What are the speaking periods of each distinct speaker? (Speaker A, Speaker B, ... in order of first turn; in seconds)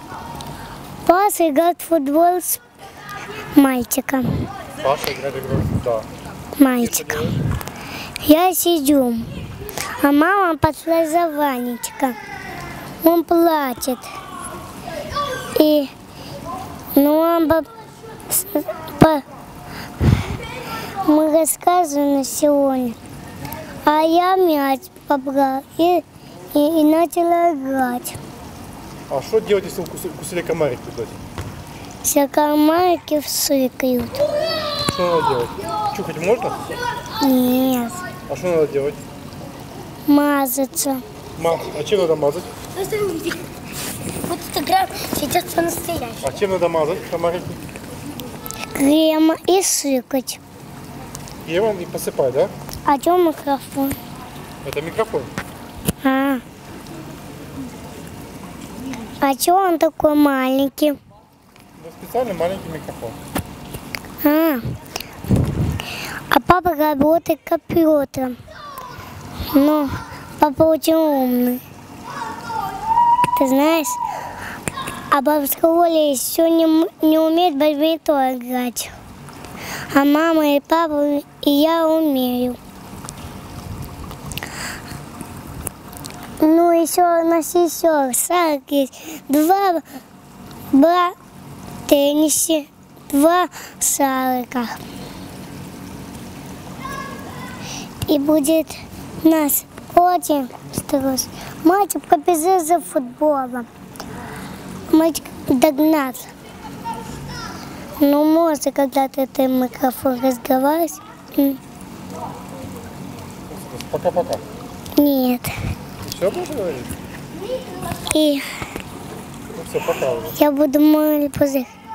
Speaker A: 1.0-2.6, 3.5-4.4, 6.6-7.4, 8.2-12.2, 13.0-14.1, 15.5-15.9, 16.9-17.7, 18.3-19.2, 20.0-20.4, 21.0-23.0, 23.8-28.2, 32.0-34.2, 37.2-38.0, 40.1-41.0, 42.8-43.4, 44.2-46.2, 48.7-50.4, 52.9-54.0, 56.0-56.4, 59.2-61.0, 64.2-64.6, 65.3-68.4, 69.5-71.6, 73.3-74.0, 75.1-79.0, 79.9-82.6, 86.4-89.8, 90.7-91.1, 91.9-94.8, 98.1-103.7, 104.9-106.3, 108.0-111.6, 115.0-115.5, 118.1-118.5, 120.4-121.7
Speaker B: 4.8-6.1, 7.0-7.3, 29.1-31.2, 34.9-36.7, 38.3-39.0, 41.4-42.5, 46.2-47.6, 51.5-52.5, 54.6-55.3, 61.8-63.2, 113.5-114.4, 116.0-116.9, 119.5-120.4